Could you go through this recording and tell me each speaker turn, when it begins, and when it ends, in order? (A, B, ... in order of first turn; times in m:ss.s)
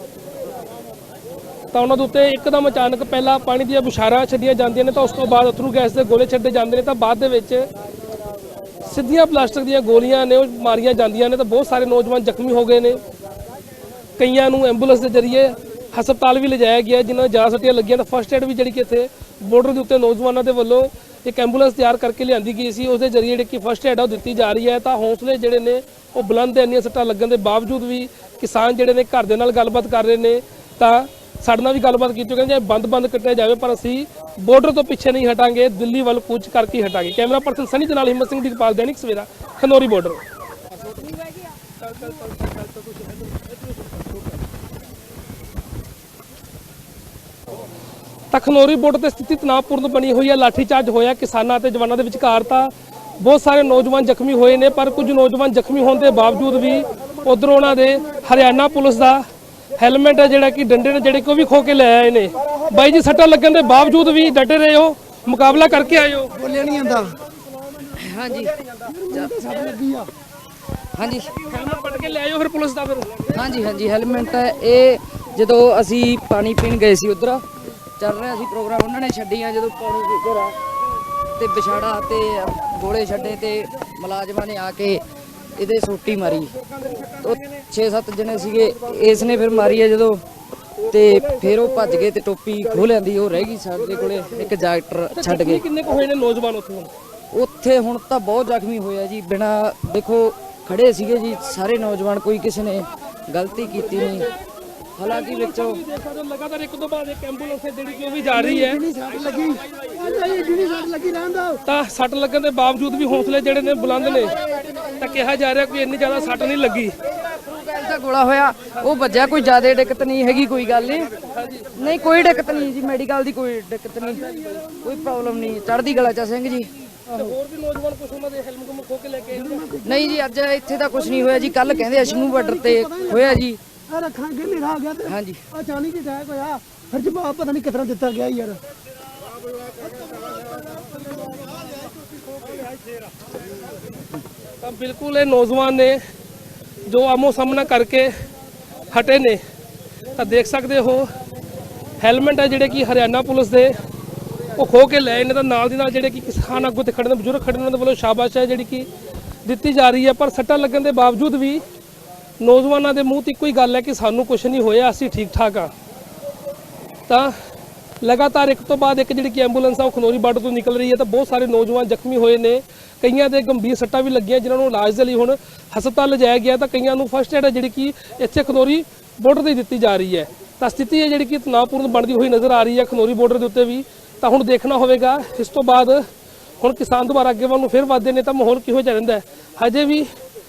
0:01.7-0:07.6 A
0:08.8-0:13.0 A
0:14.2-0:40.2 A
0:41.8-0:44.3 A
0:48.3-0:59.2 A
0:59.8-1:06.4 A
1:06.4-1:07.1 B
1:08.0-1:09.8 C
1:09.1-1:10.1 B
1:10.9-1:11.3 C
1:11.5-1:13.1 A
1:13.3-1:20.6 C
1:21.4-1:25.0 C
1:25.5-1:30.2 C
1:30.8-1:35.6 C
1:35.1-1:36.9 A
1:37.3-1:44.3 C
1:45.0-1:45.8 C
1:45.0-1:48.8 A
1:48.4-1:51.6 B
1:51.6-1:54.4 A
1:55.0-1:56.9 A
1:57.4-2:01.1 C
2:01.3-2:01.7 A
2:01.8-2:04.2 C
2:04.8-2:06.7 C
2:07.1-2:09.8 A
2:09.6-2:10.2 B
2:09.8-2:13.6 C
2:11.6-2:13.2 B
2:13.9-2:15.0 B
2:15.0-2:15.4 C
2:15.6-2:18.6 B
2:21.0-2:21.6 B
2:24.6-2:26.0 A
2:26.8-2:28.1 A
2:28.9-2:29.4 A
2:30.1-2:31.0 A
2:32.0-2:33.8 A
2:34.6-2:38.9 A
2:39.4-2:41.6 A
2:42.4-2:45.7 A
2:47.1-2:47.3 A
2:48.0-3:06.0 A
3:06.6-3:10.1 A